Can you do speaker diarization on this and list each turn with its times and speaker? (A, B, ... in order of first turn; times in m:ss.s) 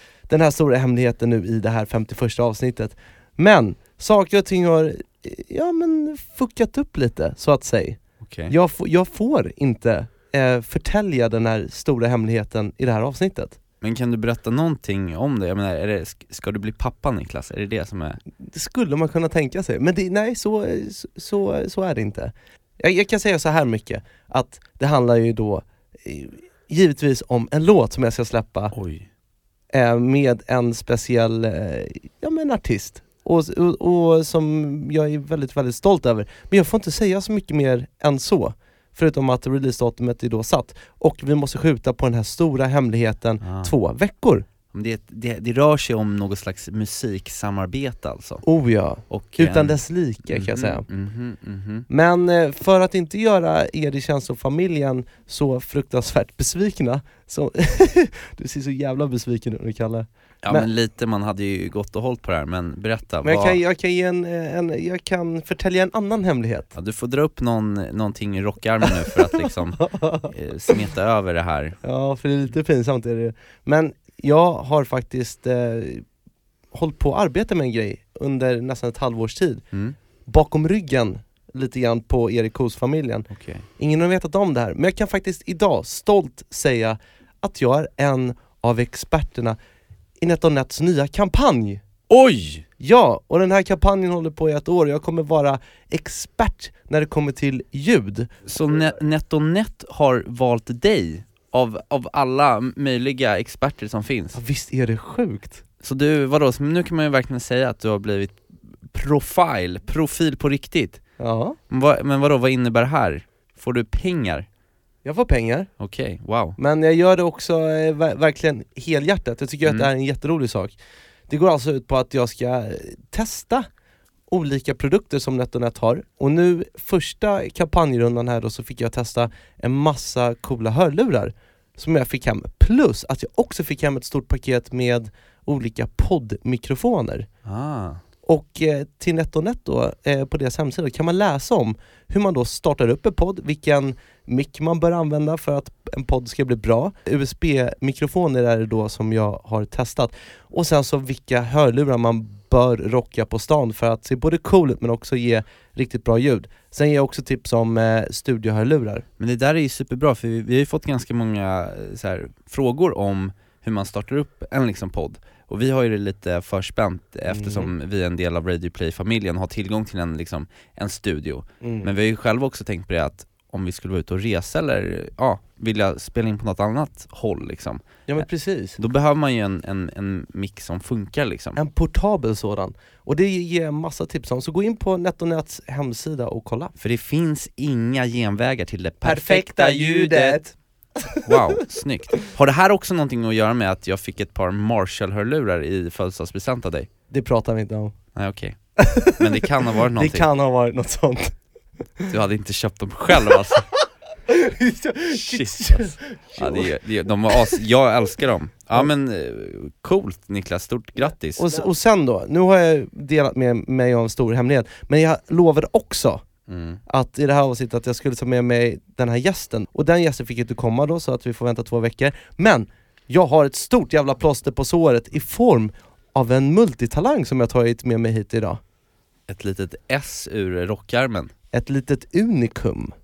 0:00.3-0:13.6 A
0:08.2-0:08.5 B
0:13.8-0:18.2 B
0:18.4-0:28.7 A
0:28.7-0:29.1 B
0:29.7-0:44.4 A
0:43.4-0:43.7 B
0:44.7-0:48.4 B
0:48.4-0:50.8 A
0:49.1-0:51.9 B
0:51.9-1:00.7 A
1:00.4-1:03.6 B
1:03.2-1:06.7 A
1:06.7-1:11.8 B
1:09.9-1:10.3 A
1:11.8-1:16.0 A
1:16.7-1:19.6 A
1:19.7-1:20.0 B
1:20.2-1:29.6 A
1:23.3-1:23.6 B
1:30.2-1:31.8 A
1:32.1-1:32.6 B
1:32.8-1:38.3 A
1:38.4-1:44.4 B
1:44.3-1:45.6 A
1:45.8-1:51.0 B
1:51.2-1:51.6 A
1:51.7-1:54.4 B
1:55.0-1:55.7 A
1:55.8-1:56.6 B
1:56.6-2:00.8 A
2:01.3-2:03.7 A
2:04.3-2:17.3 A
2:17.4-2:18.0 B
2:18.2-2:39.0 A
2:39.2-2:58.2 B
2:47.3-2:47.7 A
2:51.6-2:51.9 A
2:58.1-2:58.8 A
2:58.8-3:01.6 B
3:01.6-3:06.7 A
3:06.8-3:10.6 B
3:09.0-3:10.6 A
3:11.2-3:16.9 B
3:17.1-3:17.9 A
3:18.2-3:20.3 B
3:18.8-3:19.2 A
3:19.9-3:21.4 A
3:22.1-3:23.7 B
3:24.3-3:26.7 A
3:25.2-3:31.7 B
3:31.4-3:36.2 A
3:36.5-3:36.8 B
3:36.9-3:48.6 A
3:49.3-3:51.3 B
3:51.5-3:52.9 A